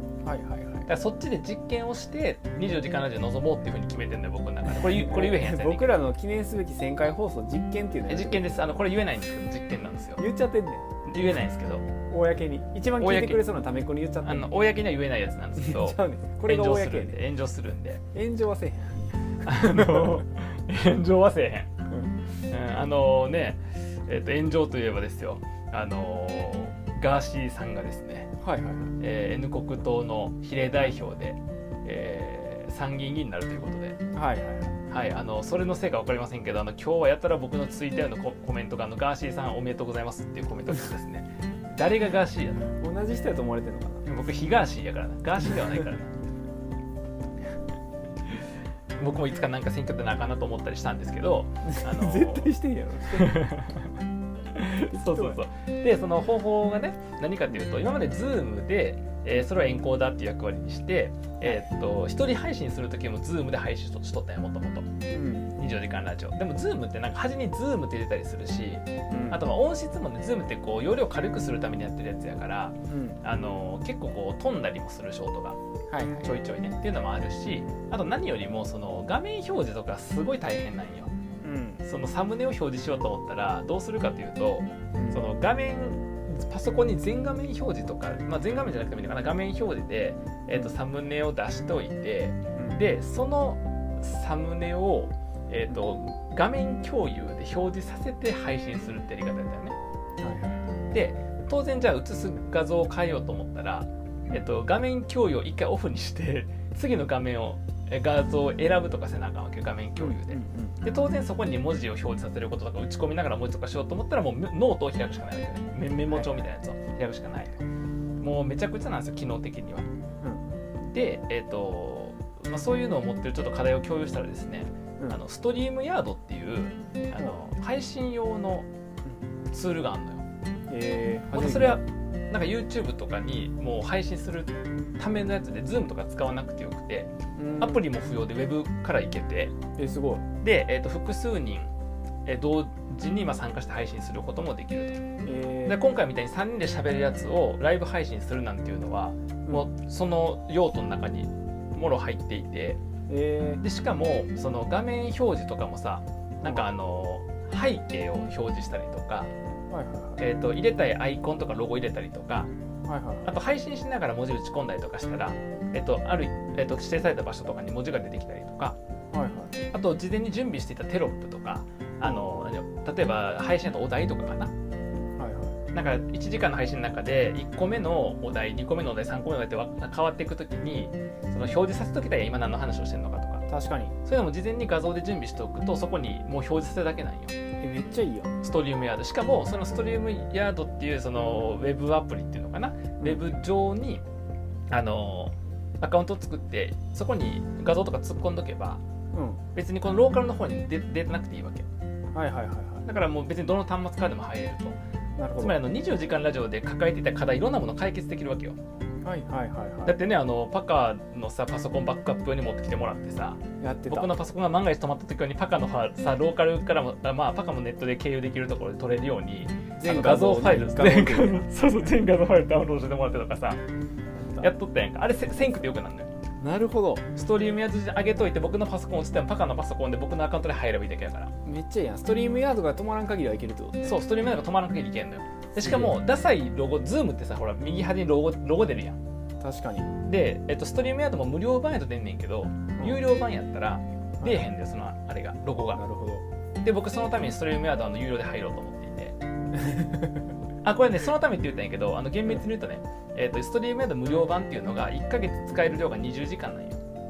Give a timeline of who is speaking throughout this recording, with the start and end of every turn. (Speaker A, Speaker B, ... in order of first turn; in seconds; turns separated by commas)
Speaker A: 0.2-0.9, Speaker B: 0.9-6.0, Speaker A: 4.7-8.8, Speaker B: 8.1-10.2, Speaker A: 10.2-10.8, Speaker B: 11.0-11.9, Speaker A: 12.1-14.5, Speaker B: 13.0-13.4, Speaker B: 14.2-18.0, Speaker A: 15.6-17.2, Speaker A: 18.1-20.2, Speaker B: 19.4-21.7, Speaker B: 22.4-28.3, Speaker A: 28.4-28.9, Speaker B: 29.0-34.0, Speaker A: 34.1-34.8, Speaker B: 34.9-42.7, Speaker A: 42.8-44.1, Speaker B: 44.0-46.1, Speaker B: 49.0-52.5, Speaker A: 51.7-53.4, Speaker B: 53.1-53.9, Speaker B: 54.5-64.9, Speaker A: 54.9-55.4, Speaker A: 65.1-65.5, Speaker B: 65.6-75.6, Speaker A: 69.1-69.4, Speaker A: 72.9-73.2, Speaker A: 75.9-76.4, Speaker B: 76.2-81.1, Speaker A: 81.4-81.8, Speaker B: 81.8-99.8, Speaker A: 85.0-85.3, Speaker A: 92.6-92.8, Speaker A: 100.2-100.6, Speaker B: 100.9-117.6, Speaker A: 110.0-110.8, Speaker A: 116.1-116.4, Speaker B: 118.2-119.9, Speaker A: 120.2-120.5, Speaker B: 120.8-128.7, Speaker B: 129.5-130.2, Speaker A: 130.7-131.8, Speaker B: 131.3-139.6, Speaker A: 137.4-137.8, Speaker A: 139.8-140.2, Speaker B: 140.4-141.7, Speaker B: 142.3-145.0, Speaker A: 145.2-145.8, Speaker B: 145.7-152.8, Speaker A: 153.1-153.6, Speaker B: 153.6-159.3, Speaker A: 156.4-156.7, Speaker A: 159.7-160.2, Speaker B: 160.2-162.5, Speaker A: 162.9-163.3, Speaker B: 163.2-168.8, Speaker A: 169.1-169.6, Speaker B: 169.7-174.5, Speaker A: 172.0-172.5, Speaker A: 175.2-175.6, Speaker B: 175.7-183.4, Speaker A: 183.5-183.9, Speaker B: 184.0-187.3, Speaker A: 187.6-188.3, Speaker B: 188.4-194.0, Speaker B: 194.7-198.8, Speaker A: 199.1-199.4, Speaker B: 199.6-201.7, Speaker A: 202.1-202.9, Speaker B: 202.9-204.8, Speaker A: 205.2-205.6, Speaker B: 205.4-208.6, Speaker A: 209.0-210.0, Speaker B: 209.9-223.6, Speaker A: 213.6-214.1, Speaker A: 219.8-221.5, Speaker B: 224.4-226.1, Speaker A: 226.4-227.1, Speaker B: 227.1-231.3, Speaker A: 231.4-234.0, Speaker B: 233.8-239.0, Speaker A: 235.6-235.9, Speaker A: 239.4-239.9, Speaker B: 240.0-245.8, Speaker A: 244.2-244.4, Speaker A: 245.7-246.2, Speaker B: 246.6-249.2, Speaker A: 249.5-250.2, Speaker B: 250.6-256.8